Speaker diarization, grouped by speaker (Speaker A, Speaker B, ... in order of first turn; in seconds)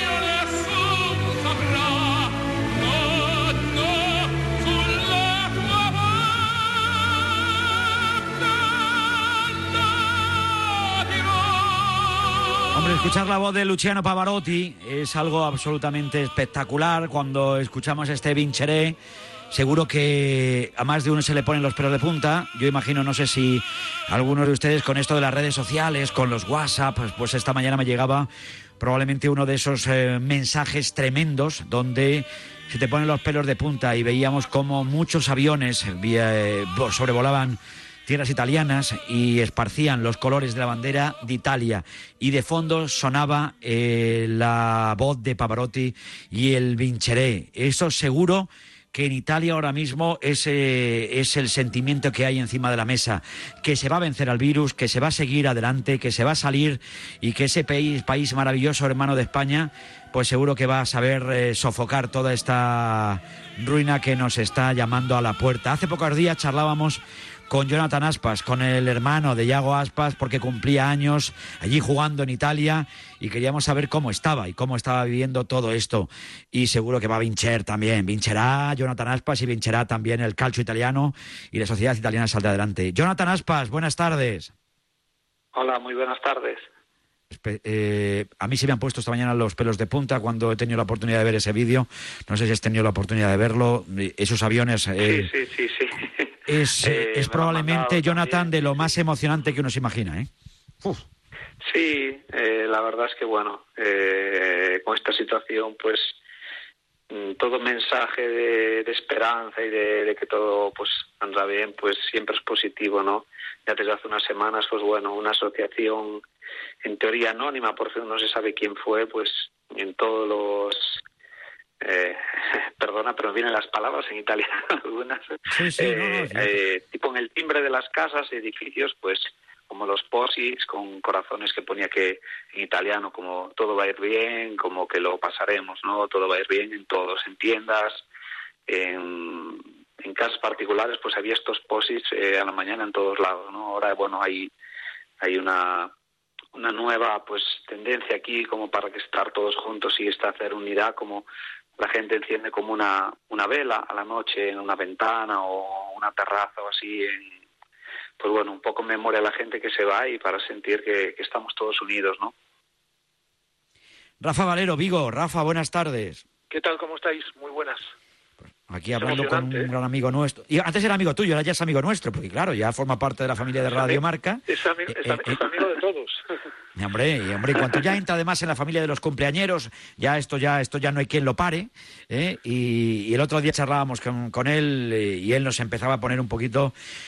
Speaker A: 12.7-19.0, 19.5-28.3, 28.8-84.5, 87.3-95.3, 96.5-100.3, 125.5-126.5, 164.2-166.2, 168.4-175.4, 176.8-186.7
Speaker B: 85.5-86.6, 95.0-98.9, 101.6-106.1, 107.1-116.2, 116.8-121.0, 121.8-138.0, 138.7-144.5, 145.2-145.9, 146.5-151.2, 151.8-157.4, 158.2-162.3
Speaker C: 166.5-167.9, 169.0-169.7, 173.7-176.2